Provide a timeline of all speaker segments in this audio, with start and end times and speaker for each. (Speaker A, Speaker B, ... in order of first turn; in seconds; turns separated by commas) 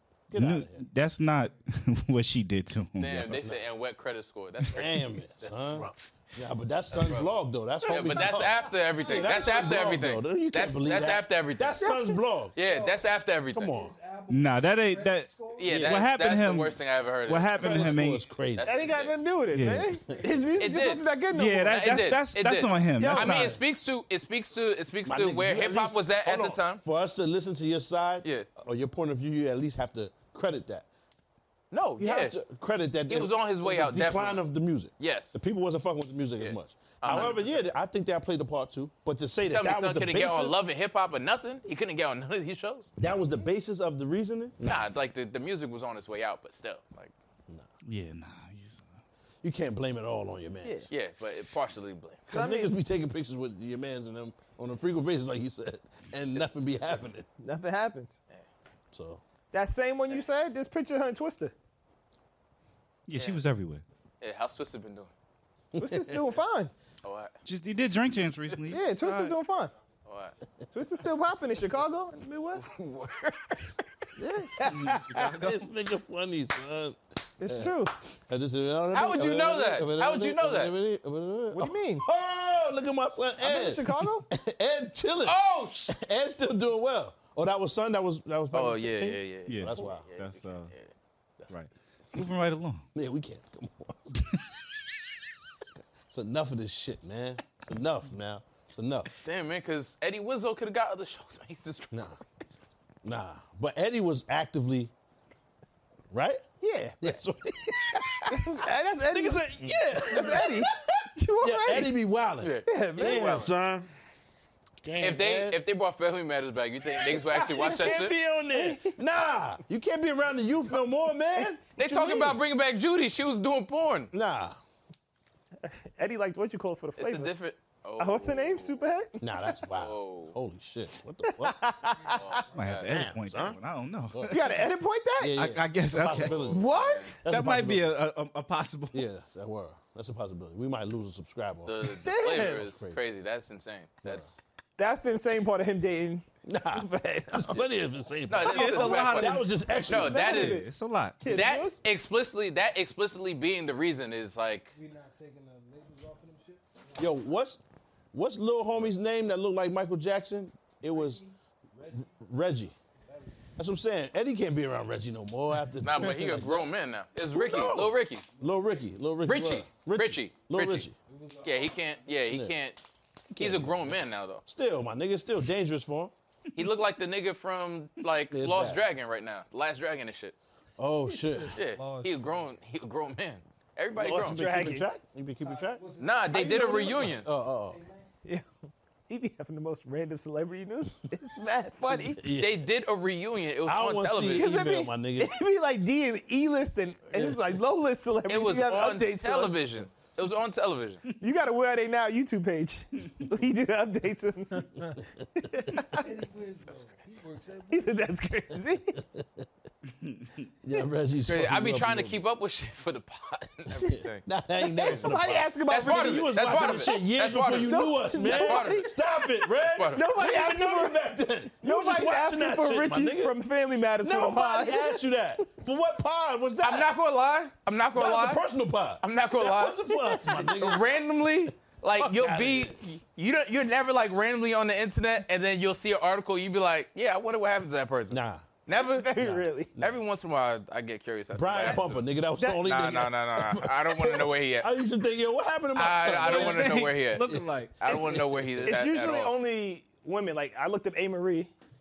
Speaker A: 0.3-0.8, Speaker B: 0.3-3.4, Speaker C: 3.0-5.9, Speaker A: 3.2-3.6, Speaker A: 4.7-12.5, Speaker C: 6.9-7.3, Speaker C: 7.9-11.9, Speaker D: 8.5-9.8, Speaker E: 11.8-12.1, Speaker C: 12.5-13.7, Speaker D: 12.6-15.9, Speaker A: 13.5-13.9, Speaker B: 14.3-18.2, Speaker C: 15.6-18.0, Speaker A: 15.7-16.0, Speaker A: 17.6-18.9, Speaker C: 18.5-19.2, Speaker E: 18.6-21.7, Speaker B: 19.5-20.0, Speaker D: 20.1-20.4, Speaker C: 20.6-21.0, Speaker B: 21.3-23.6, Speaker C: 21.6-26.8, Speaker E: 23.0-23.6, Speaker A: 25.0-30.9, Speaker C: 31.7-32.4, Speaker A: 32.0-40.6, Speaker C: 33.0-34.5, Speaker C: 35.0-35.4, Speaker C: 36.4-37.7, Speaker C: 39.4-42.9, Speaker A: 43.0-44.7, Speaker C: 44.6-47.1, Speaker B: 47.9-48.8, Speaker A: 49.4-50.9, Speaker C: 50.9-52.3, Speaker E: 52.3-52.7, Speaker A: 52.3-57.3, Speaker E: 57.4-58.2, Speaker A: 58.9-59.2, Speaker E: 59.5-61.5, Speaker B: 63.1-63.8, Speaker C: 64.2-65.1, Speaker A: 65.7-66.2, Speaker E: 65.8-66.7, Speaker C: 67.0-67.3, Speaker B: 67.4-69.4, Speaker E: 68.7-69.7, Speaker C: 70.0-70.4, Speaker E: 70.7-72.7, Speaker C: 72.6-73.8, Speaker A: 74.2-77.7, Speaker E: 74.2-74.5, Speaker B: 74.7-75.6, Speaker E: 77.4-77.9, Speaker A: 78.3-85.4, Speaker C: 78.9-80.7, Speaker E: 81.5-82.0, Speaker E: 83.4-84.2, Speaker C: 85.2-85.9, Speaker A: 85.9-90.0, Speaker C: 88.5-90.9, Speaker B: 89.5-90.7, Speaker B: 91.5-92.8, Speaker A: 92.9-94.2, Speaker A: 96.1-99.1, Speaker C: 99.1-102.2, Speaker A: 101.9-102.2, Speaker A: 103.0-104.9, Speaker A: 106.1-106.4, Speaker E: 106.6-107.0, Speaker A: 107.0-110.7, Speaker E: 108.2-111.9, Speaker A: 111.4-113.9, Speaker C: 112.4-113.5, Speaker E: 112.6-113.4, Speaker A: 114.8-115.6, Speaker C: 115.0-118.1, Speaker A: 116.9-122.3, Speaker E: 118.5-118.9, Speaker E: 121.4-122.2, Speaker C: 121.8-124.1, Speaker A: 124.1-124.6, Speaker E: 126.0-127.3, Speaker C: 127.0-128.8, Speaker E: 128.0-129.6, Speaker A: 129.2-131.6, Speaker C: 129.7-130.3, Speaker E: 131.2-132.4, Speaker C: 132.1-132.9, Speaker B: 132.5-134.6, Speaker A: 132.9-133.6, Speaker E: 134.3-135.3, Speaker A: 135.2-136.6, Speaker B: 135.3-136.5, Speaker C: 136.0-137.2, Speaker E: 136.5-137.2, Speaker A: 137.2-137.9, Speaker B: 137.3-139.0, Speaker A: 138.9-141.8, Speaker C: 141.7-144.4, Speaker E: 142.0-142.6, Speaker A: 142.4-142.9, Speaker E: 144.8-147.7, Speaker A: 146.4-150.5, Speaker C: 148.3-150.6, Speaker B: 148.5-149.4, Speaker E: 149.9-150.7, Speaker B: 150.2-151.2, Speaker E: 151.2-151.8, Speaker C: 151.2-154.7, Speaker D: 154.7-157.1, Speaker A: 157.0-157.6, Speaker A: 158.1-161.2, Speaker D: 160.9-163.5, Speaker A: 162.1-162.7, Speaker A: 163.6-166.7, Speaker C: 165.8-168.2, Speaker A: 167.3-170.9, Speaker D: 168.3-168.9, Speaker C: 169.2-170.9, Speaker D: 170.9-172.3, Speaker C: 171.4-172.8, Speaker A: 172.3-172.6, Speaker A: 173.3-176.1, Speaker C: 173.4-174.4, Speaker C: 176.6-180.3, Speaker A: 178.3-178.8, Speaker A: 180.8-181.6, Speaker D: 181.2-182.5, Speaker C: 181.5-184.4, Speaker A: 183.9-187.8, Speaker E: 184.2-184.9, Speaker D: 185.4-188.1, Speaker C: 186.0-187.3, Speaker E: 189.1-192.2, Speaker A: 192.1-192.6, Speaker C: 192.4-194.5, Speaker A: 193.7-195.3, Speaker E: 194.3-199.6, Speaker A: 197.1-197.4, Speaker C: 198.3-201.0, Speaker E: 201.2-206.0, Speaker D: 205.9-208.1, Speaker E: 207.7-209.0, Speaker A: 209.1-209.4, Speaker A: 210.6-212.2, Speaker C: 211.2-214.2, Speaker A: 213.8-223.3, Speaker E: 214.6-217.0, Speaker C: 215.7-218.9, Speaker E: 217.6-218.8, Speaker C: 219.7-220.0, Speaker E: 219.9-221.0, Speaker E: 221.6-225.0, Speaker A: 224.0-226.9, Speaker C: 226.6-228.4, Speaker A: 227.9-230.9, Speaker C: 229.0-239.1, Speaker A: 232.0-232.7, Speaker A: 238.1-238.4, Speaker E: 238.7-239.7, Speaker A: 239.2-240.0, Speaker C: 239.8-244.7, Speaker A: 241.3-248.7, Speaker C: 245.7-249.3, Speaker B: 246.2-248.0, Speaker E: 246.3-246.8, Speaker E: 248.6-251.5